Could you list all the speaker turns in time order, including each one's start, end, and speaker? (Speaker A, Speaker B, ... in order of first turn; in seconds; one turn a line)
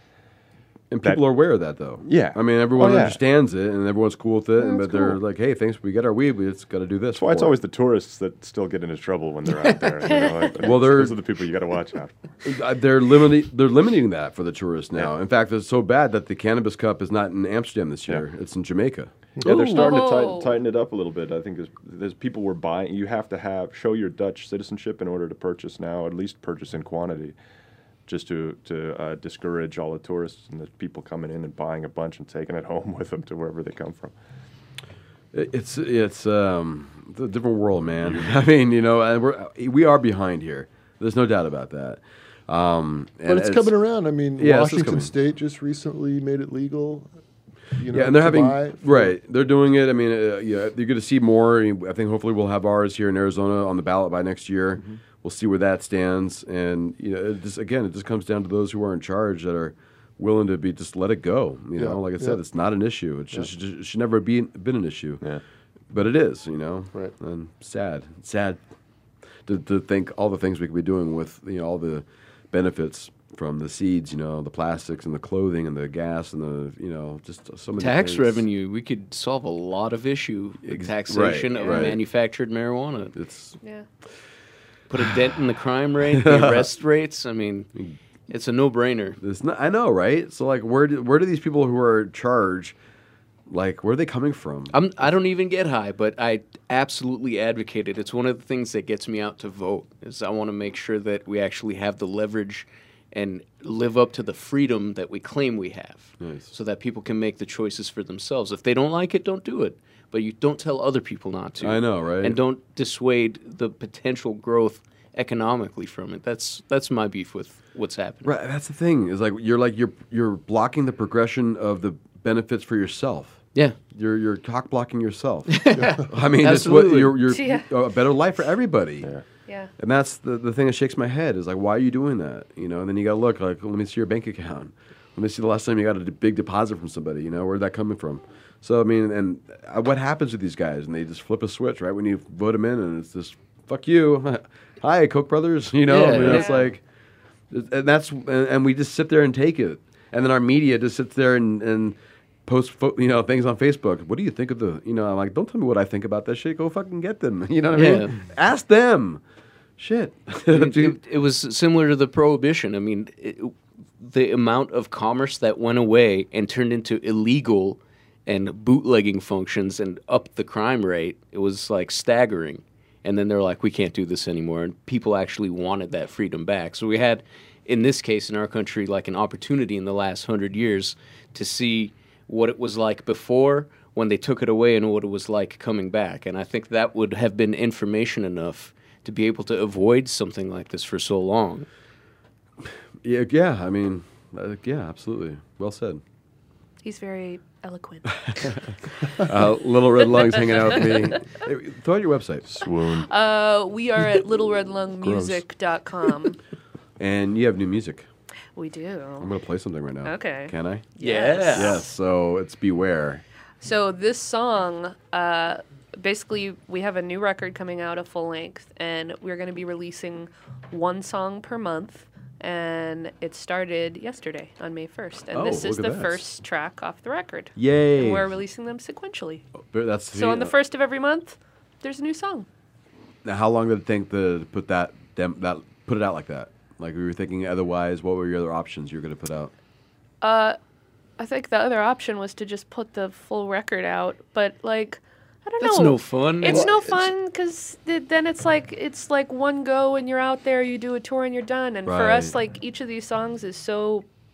Speaker A: 0.9-7.6
Speaker B: 2.0-3.2
Speaker C: 4.6-5.2
Speaker B: 7.1-12.2
Speaker C: 10.1-10.5
Speaker A: 10.6-11.2
Speaker A: 12.4-19.1
Speaker B: 19.4-27.4
Speaker D: 19.4-19.8
Speaker C: 19.7-20.6
Speaker B: 28.1-34.1
Speaker A: 35.3-43.7
Speaker B: 38.0-38.4
Speaker D: 43.2-47.1
Speaker A: 44.4-45.1
Speaker D: 47.7-49.1
Speaker A: 47.9-65.2
Speaker D: 61.8-62.4
Speaker A: 65.9-68.6
Speaker A: 69.5-78.4
Speaker E: 77.8-83.1
Speaker A: 80.6-82.0
Speaker C: 81.5-82.0
Speaker A: 83.1-83.5
Speaker C: 83.6-83.9
Speaker E: 84.9-87.7
Speaker A: 86.2-86.7
Speaker E: 88.3-89.2
Speaker A: 89.2-92.8
Speaker A: 93.5-94.7
Speaker E: 94.7-118.3
Speaker A: 106.2-106.5
Speaker A: 111.6-112.4
Speaker A: 118.2-123.4
Speaker A: 123.9-129.1
Speaker E: 125.5-127.2
Speaker C: 127.3-127.7
Speaker A: 129.8-146.8
Speaker E: 145.8-146.5
Speaker C: 146.2-146.7
Speaker A: 147.5-159.2
Speaker E: 157.7-158.1
Speaker A: 159.8-161.0
Speaker E: 160.5-191.7
Speaker A: 193.0-196.0
Speaker C: 196.8-199.3
Speaker A: 199.0-202.5
Speaker C: 200.0-201.2
Speaker B: 202.5-203.1
Speaker C: 202.9-206.4
Speaker A: 205.0-205.4
Speaker A: 207.0-208.1
Speaker C: 208.6-209.3
Speaker A: 209.2-210.8
Speaker C: 210.0-211.9
Speaker E: 211.0-211.8
Speaker A: 211.5-213.2
Speaker C: 213.6-229.4
Speaker A: 225.3-226.2
Speaker A: 227.6-228.3
Speaker A: 229.7-230.5
Speaker C: 230.1-232.5
Speaker A: 233.2-239.5
Speaker C: 240.2-240.6
Speaker C: 241.2-254.0
Speaker E: 245.6-247.0
Speaker A: 246.5-246.7
Speaker A: 251.8-252.3